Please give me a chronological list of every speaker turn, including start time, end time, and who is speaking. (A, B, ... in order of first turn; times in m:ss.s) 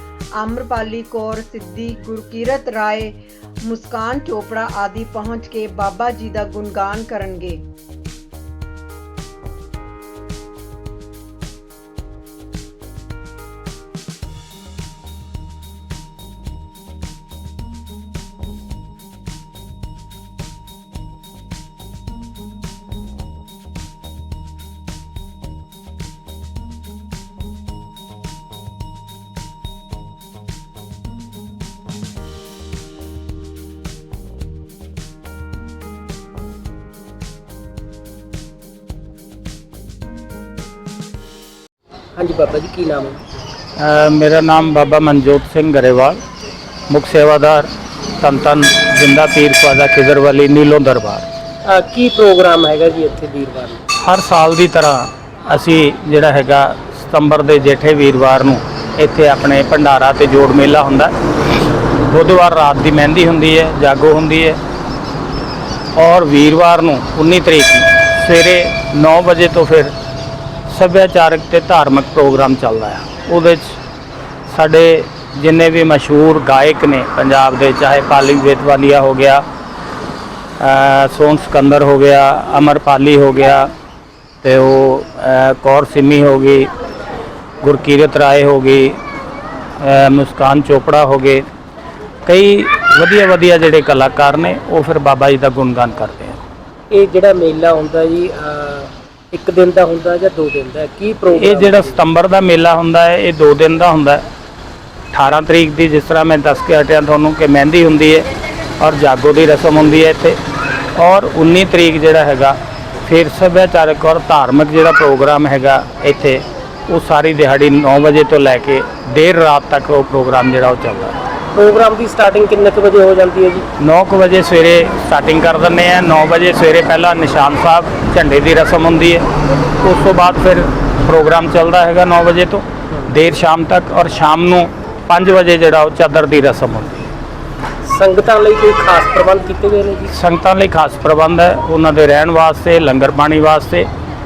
0:00.4-0:07.6 A
0:42.2-0:43.2 B
0:43.8-0:46.2 C
0:46.9-0:51.3 C
0:51.6-0:53.8 B
0:54.0-1:01.1 C
1:02.1-1:04.6 C
1:05.9-1:09.9 C
1:10.7-1:13.8 C
1:14.5-1:19.4 C
1:20.6-1:23.7 C
1:24.4-1:26.7 C
1:27.6-1:29.0 C
1:29.8-1:31.4 C
1:32.2-1:36.4 C
1:36.9-1:42.0 B
1:41.3-1:44.2 C
1:45.1-1:48.3 C
1:48.8-1:50.4 C
1:51.0-2:01.1 C
2:01.5-2:03.6 B
2:03.8-2:09.2 C
2:09.8-2:17.1 C
2:17.8-2:20.1 B
2:20.1-2:23.9 C